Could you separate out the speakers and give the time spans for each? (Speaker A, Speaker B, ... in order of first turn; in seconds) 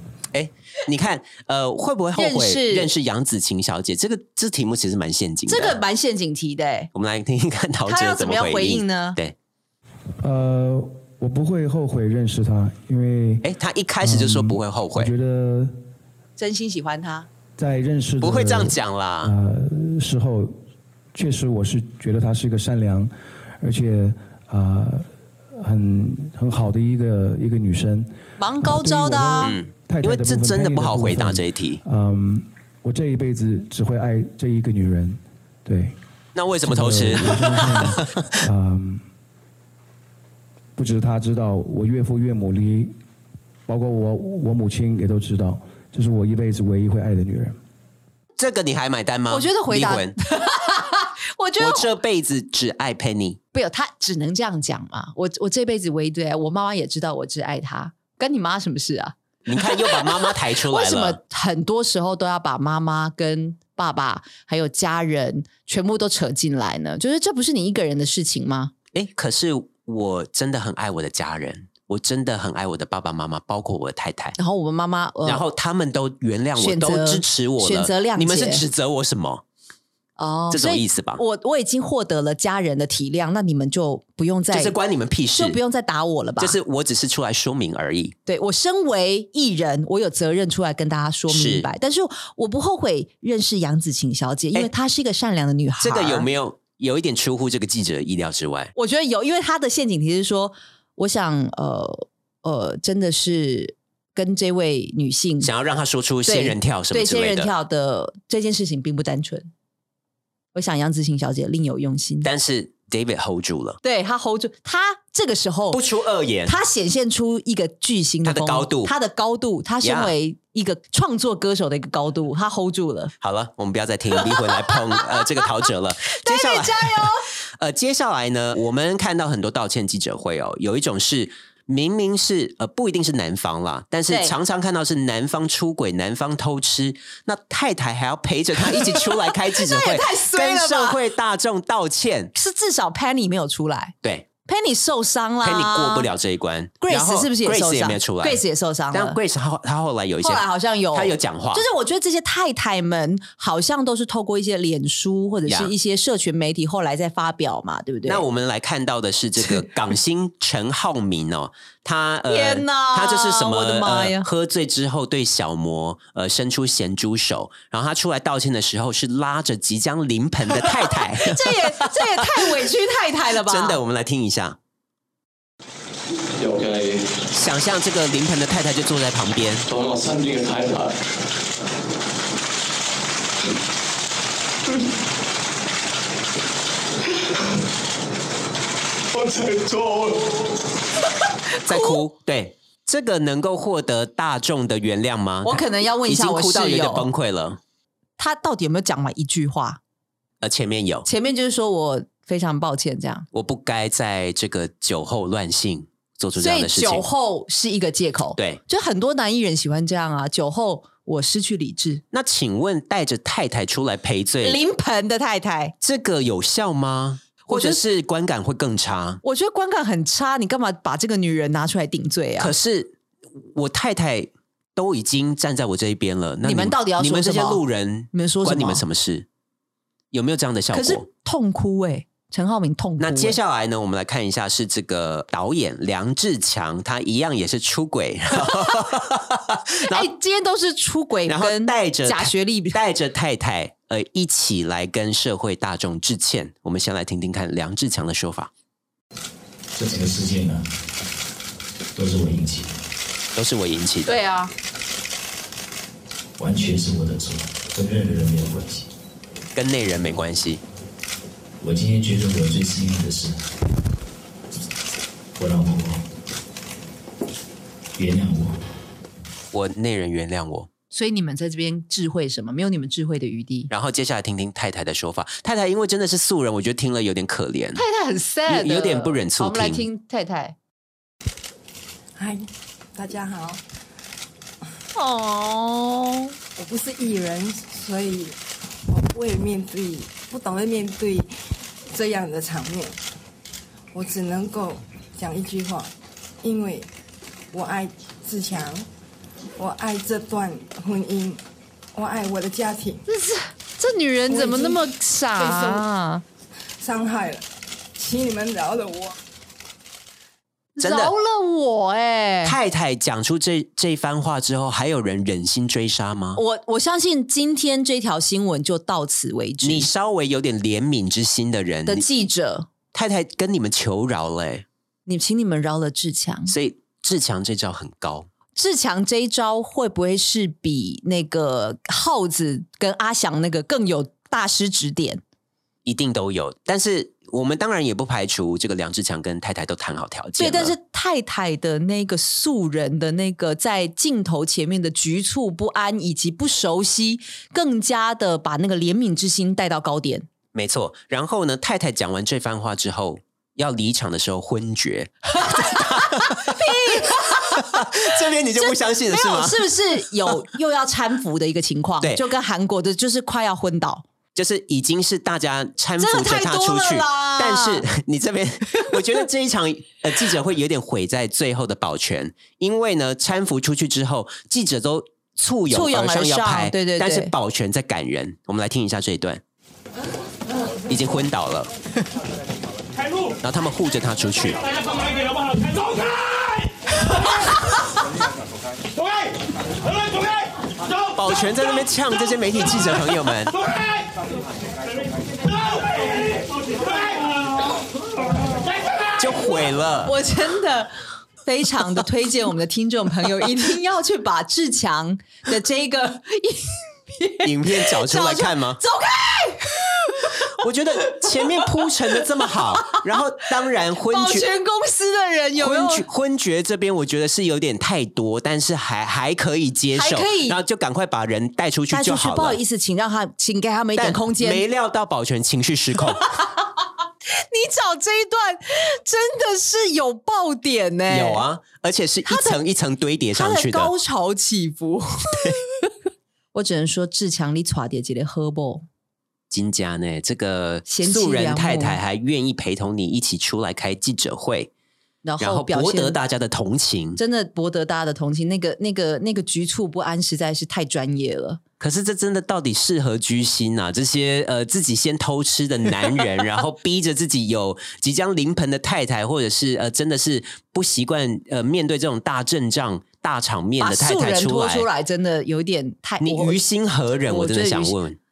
Speaker A: 0.3-5.8, 6.9-9.3, 13.4-15.1, 18.2-19.3, 29.4-31.8, 36.4-38.3, 48.4-50.2, 51.6-53.4, 59.5-61.2, 68.9-74.4, 75.2-79.4, 80.5-81.2, 84.5-85.6, 86.4-88.2, 91.3-91.7, 95.8-98.7, 105.4-107.5, 112.2-113.8, 115.7-116.5, 118.2-118.9, 119.8-120.1, 123.2-142.3, 145.4-148.4, 148.9-151.6, 155.5-155.7, 158.1-172.7, 173.4-174.6, 177.3-179.7, 191.7-197.6, 200.4-201.1, 203.3-207.1, 212.1-214.6, 215.8-219.2, 222.4-229.3, 230.1-231.1, 233.0-240.1, 241.3-248.5, 253.3-254.1, 259.6-260.6, 269.5-270.7, 273.7-277.8, 278.5-279.9, 310.8-311.1, 312.4-316.4, 319.6-322.1, 322.9-324.6, 326.5-328.3, 335.9-340.8, 350.5-360.3, 364.4-379.4, 380.9-381.7, 383.4-384.7, 391.1-393.6, 399.2-400.2, 407.4-408.8, 410.4-414.5, 415.6-422.6, 424.0-426.3, 431.1-433.9, 439.5-444.7, 445.4-447.2, 451.8-464.9, 466.2-468.2
Speaker B: 2.2-2.9, 5.5-6.9, 7.9-9.2, 16.4-17.3, 28.4-29.6, 49.3-51.9, 53.5-68.7, 74.4-75.4, 76.6-78.6, 80.2-84.8, 85.3-86.6, 88.3-96.3, 98.8-105.5, 106.3-109.5, 110.5-112.3, 113.8-115.8, 116.5-123.1, 124.2-125.2, 126.1-127.3, 134.1-134.3, 139.3-141.0, 142.3-143.9, 144.5-146.1, 146.8-149.2, 150.2-158.2, 162.3-164.3, 170.9-173.8, 191.6-192.0, 195.4-197.1, 198.2-199.8, 201.1-203.3, 206.4-212.0, 214.4-215.7, 217.5-217.8, 219.2-222.5, 226.4-227.6, 228.1-228.8, 230.7-233.4, 239.9-242.8, 254.1-254.5, 270.9-273.7, 277.8-280.6, 284.9-286.3, 303.1-306.2, 310.8-312.6, 316.4-319.9, 321.9-322.7, 325.1-326.5, 328.6-335.2, 340.4-350.3, 355.4-364.1, 366.0-367.9, 375.7-377.3, 400.1-400.9, 401.4-413.2, 414.1-416.1, 419.9-420.6, 421.9-424.6, 427.4-431.4, 432.3-432.6, 433.4-435.9, 436.5-438.9, 440.9-442.0, 445.2-446.2, 447.2-451.6, 463.8-466.6, 467.3-468.0
Speaker C: 10.2-13.4, 14.0-15.8, 17.6-20.6, 21.1-36.0, 36.6-39.0, 40.8-43.0, 43.7-47.6
Speaker D: 176.4-177.2, 179.7-181.0, 189.1-190.5, 395.9-396.4
Speaker E: 249.8-250.7, 252.0-252.7, 256.4-258.9, 261.6-263.4, 265.4-266.0, 268.0-268.6
Speaker F: 282.2-283.6, 286.6-291.3, 291.9-293.0, 293.9-296.9, 297.5-298.9, 299.6-301.4, 301.9-303.0, 304.3-304.8, 305.4-305.9, 306.8-309.2